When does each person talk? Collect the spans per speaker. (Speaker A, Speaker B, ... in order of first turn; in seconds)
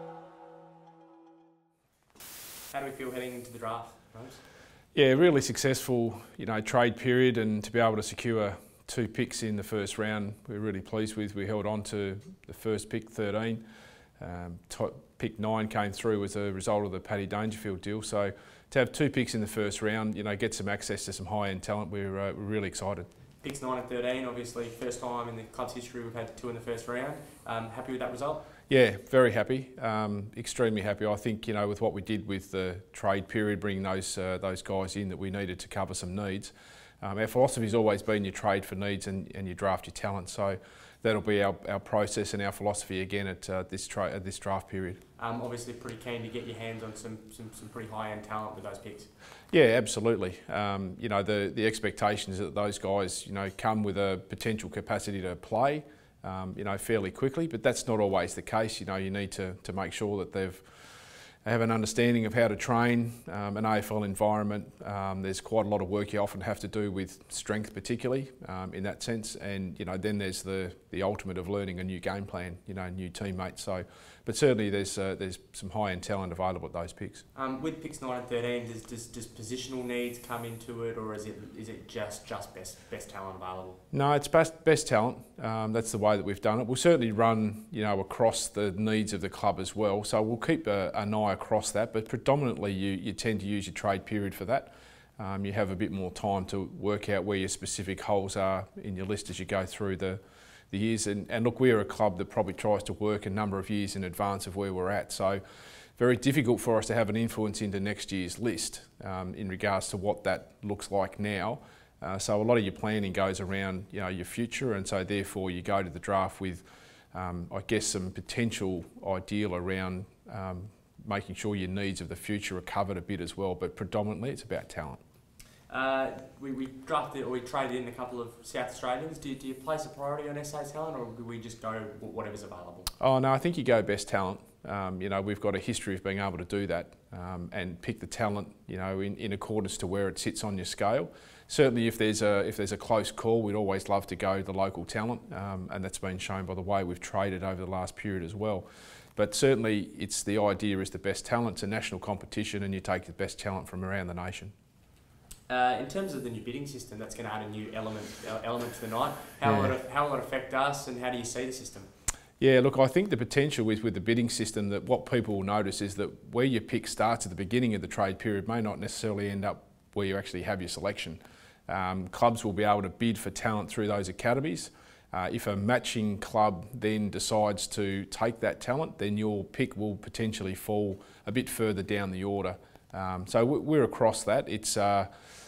Speaker A: 2.7-4.4, 23.4-28.5, 45.2-49.1, 77.3-83.8, 125.7-132.9, 155.5-161.9
Speaker B: 4.9-13.6, 14.2-23.1, 28.7-45.0, 49.5-77.2, 83.9-100.2, 100.7-105.4, 106.0-125.0, 133.0-154.5, 159.4-159.7, 162.4-185.1